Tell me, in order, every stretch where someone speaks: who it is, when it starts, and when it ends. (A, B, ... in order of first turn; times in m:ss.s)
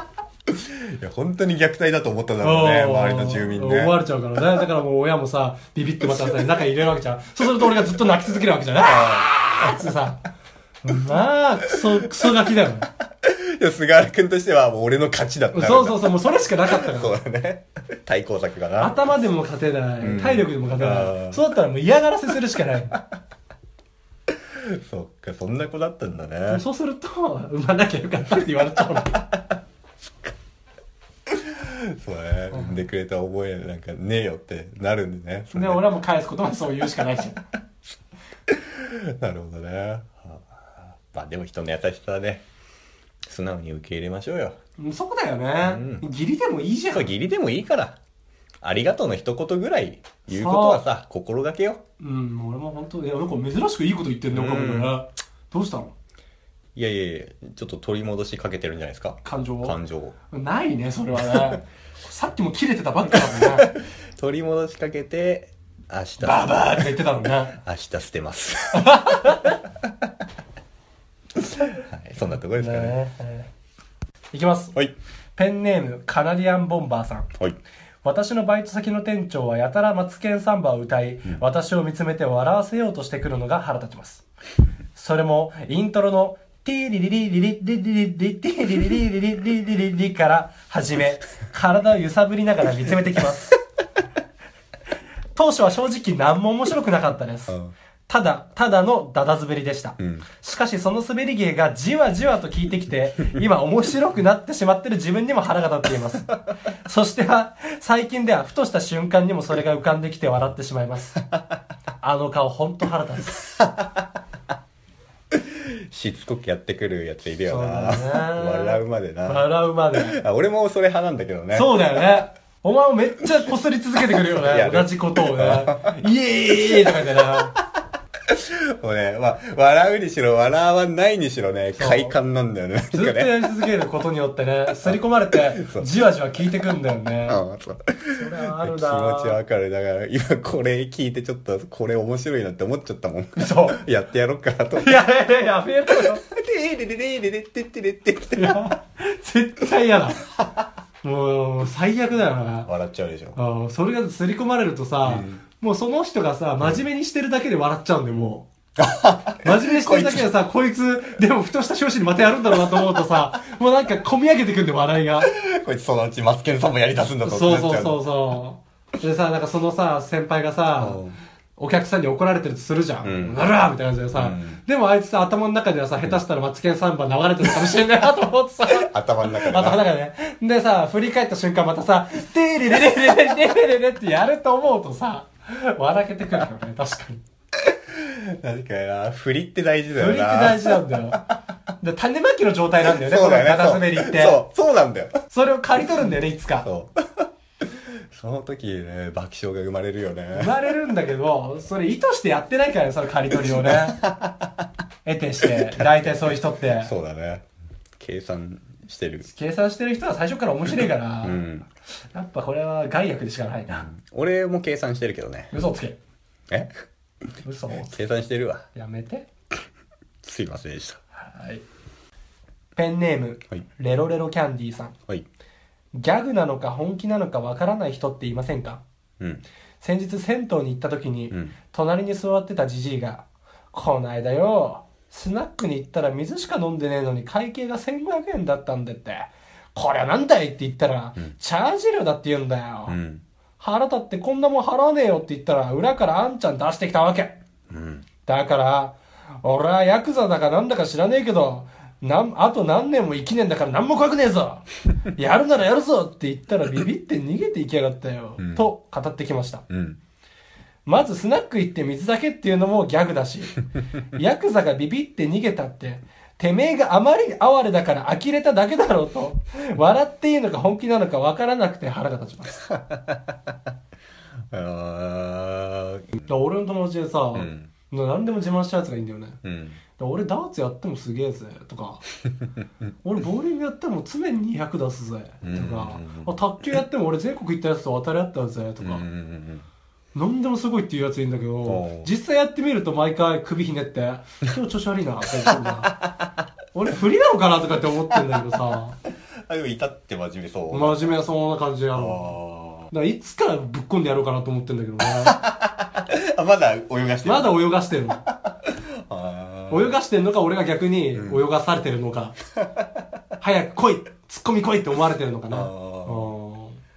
0:00.5-0:04.0 A
0:02.4-0:10.2 B
0:06.0-0:06.5 A
0:08.8-0:09.9 A
0:10.8-0:12.9 B
0:13.2-0:19.0 A
0:15.5-0:17.1 B
0:18.8-0:23.0 B
0:20.0-0:21.4 A
0:24.5-0:26.6 A
0:26.5-0:29.3 B
0:31.3-0:35.8 A
0:32.5-0:32.8 B
0:35.5-0:37.4 B
0:38.5-0:42.4 A
0:43.2-0:44.6 A
0:44.8-0:47.1 B
0:45.6-0:46.0 A
0:46.9-0:48.0 A
0:48.6-0:51.8 A
0:50.3-0:50.8 B
0:52.0-0:55.9 B
0:54.3-0:55.0 A
0:56.8-1:00.2 A
0:59.2-0:59.8 B
1:00.3-1:03.7 B
1:03.6-1:07.0 A
1:06.2-1:07.6 B
1:07.5-1:09.1 A
1:08.8-1:09.6 B
1:11.6-1:13.0 A
1:12.6-1:13.5 B
1:14.3-1:14.7 B
1:15.4-1:17.3 B
1:18.0-1:24.2 B
1:25.0-1:33.6 B
1:35.4-1:37.6 B
1:38.1-1:51.2 B
1:40.0-1:40.3 A
1:52.0-1:53.5 B
1:53.6-1:54.0 A
1:55.3-2:02.0 A
1:57.5-2:00.2 B
2:01.5-2:07.5 B
2:04.3-2:06.0 A
2:06.9-2:07.6 A
2:08.3-2:13.5 A
2:11.8-2:12.2 B
2:12.9-2:17.4 B
2:14.8-2:15.9 A
2:17.2-2:25.0 A
2:18.2-2:19.4 B
2:23.4-2:23.8 B
2:24.8-2:26.2 B
2:26.0-2:28.6 A
2:28.4-2:30.2 B
2:31.0-2:32.7 B
2:32.7-2:33.4 A
2:33.4-2:38.5 B
2:35.0-2:35.4 A
2:38.8-2:40.3 A
2:39.4-2:45.3 B
2:45.2-2:48.0 A
2:47.2-2:51.0 B
2:50.8-2:51.2 A
2:51.6-3:07.2 B
2:53.0-2:53.4 A
2:54.1-2:54.6 A
2:58.8-2:59.9 A
3:07.6-3:11.2 A
3:10.0-3:11.3 B
3:11.8-3:14.4 B
3:12.9-3:15.1 A
3:15.3-3:16.7 B
3:16.6-3:20.6 A
3:20.3-3:24.0 B
3:23.3-3:24.6 A
3:25.0-3:27.0 B
3:25.4-3:27.4 A
3:28.0-3:29.3 A
3:29.3-3:31.4 B
3:31.2-3:31.7 A
3:32.1-3:33.9 B
3:33.7-3:35.5 A
3:35.5-3:36.0 B
3:37.4-3:38.0 B
3:37.9-3:38.6 A
3:38.7-3:39.3 B
3:40.2-3:41.0 A
3:41.2-3:41.6 B
3:42.8-3:45.0 B
3:45.9-3:48.8 B
3:49.8-4:03.0 B
4:02.9-4:03.2 A
4:03.6-4:07.4 B
4:07.7-4:08.1 A
4:08.3-4:19.6 B
4:18.4-4:18.7 A
4:19.7-4:20.0 A
4:20.9-4:32.6 B
4:32.7-4:33.5 A
4:34.5-4:36.3 A
4:36.2-4:39.4 B
4:37.3-4:37.7 A
4:39.4-4:39.8 A
4:40.0-4:42.0 B
4:43.0-4:49.0 B
4:45.4-4:46.4 A
4:48.8-4:49.7 A
4:50.2-4:56.0 B
4:51.6-4:52.1 A
4:56.0-4:56.3 A
4:56.7-4:59.0 B
4:59.5-5:01.2 A
5:00.7-5:02.4 B
5:02.0-5:02.9 A
5:02.9-5:05.4 B
5:05.0-5:07.7 A
5:07.2-5:08.2 B
5:08.2-5:10.0 A
5:09.7-5:12.4 B
5:11.1-5:11.5 A
5:12.6-5:12.9 A
5:13.4-5:16.8 B
5:15.5-5:16.3 A